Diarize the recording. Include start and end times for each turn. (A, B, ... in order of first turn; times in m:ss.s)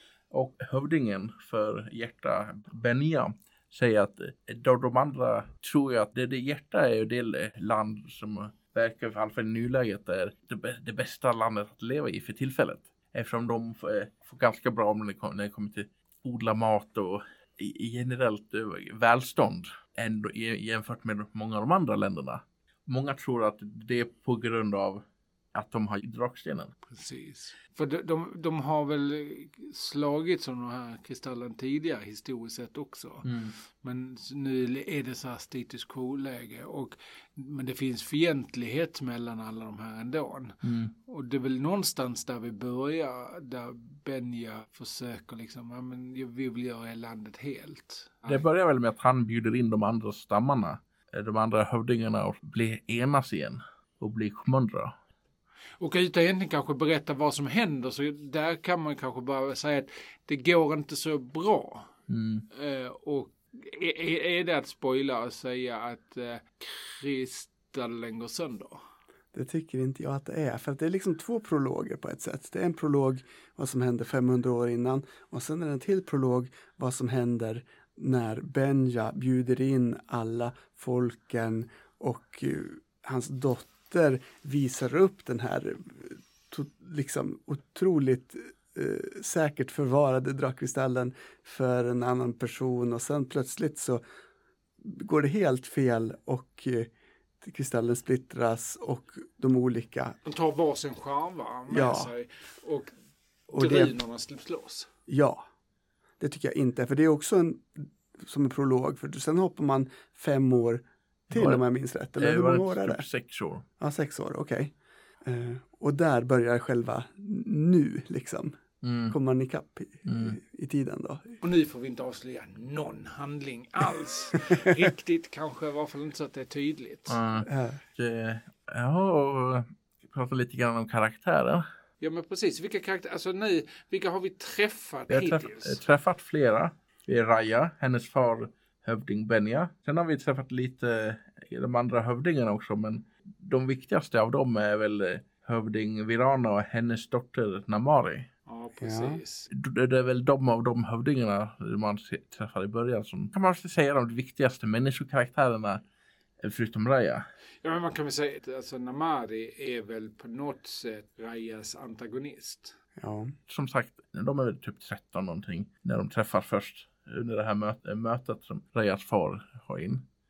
0:00.3-0:25.0 A
0:25.5-0:26.7 A
0:26.8-0:48.4 B
0:33.2-0:33.5 A
0:40.6-0:40.9 A
0:48.3-0:55.0 A
0:55.8-1:01.9 B
1:02.1-1:02.4 A
1:02.5-1:08.8 B
1:09.3-1:34.0 C
1:34.8-1:40.2 C
1:40.2-1:43.0 B
1:41.7-1:42.1 C
1:43.5-1:43.9 C
1:43.5-1:44.9 B
1:45.1-1:45.4 C
1:46.2-1:53.0 C
1:51.3-1:51.6 A
1:52.2-1:53.6 A
1:53.8-1:58.6 C
1:58.8-1:59.1 A
1:59.1-2:01.4 C
2:00.0-2:00.4 A
2:01.4-2:07.2 B
2:07.1-2:11.6 A
2:07.4-2:07.8 C
2:12.0-2:15.8 B
2:15.1-2:28.3 A
2:28.4-2:29.5 B
2:28.8-2:29.2 C
2:29.5-2:35.8 A
2:36.4-2:37.2 A
2:37.6-2:42.8 B
2:43.0-2:43.3 C
2:43.5-2:50.0 A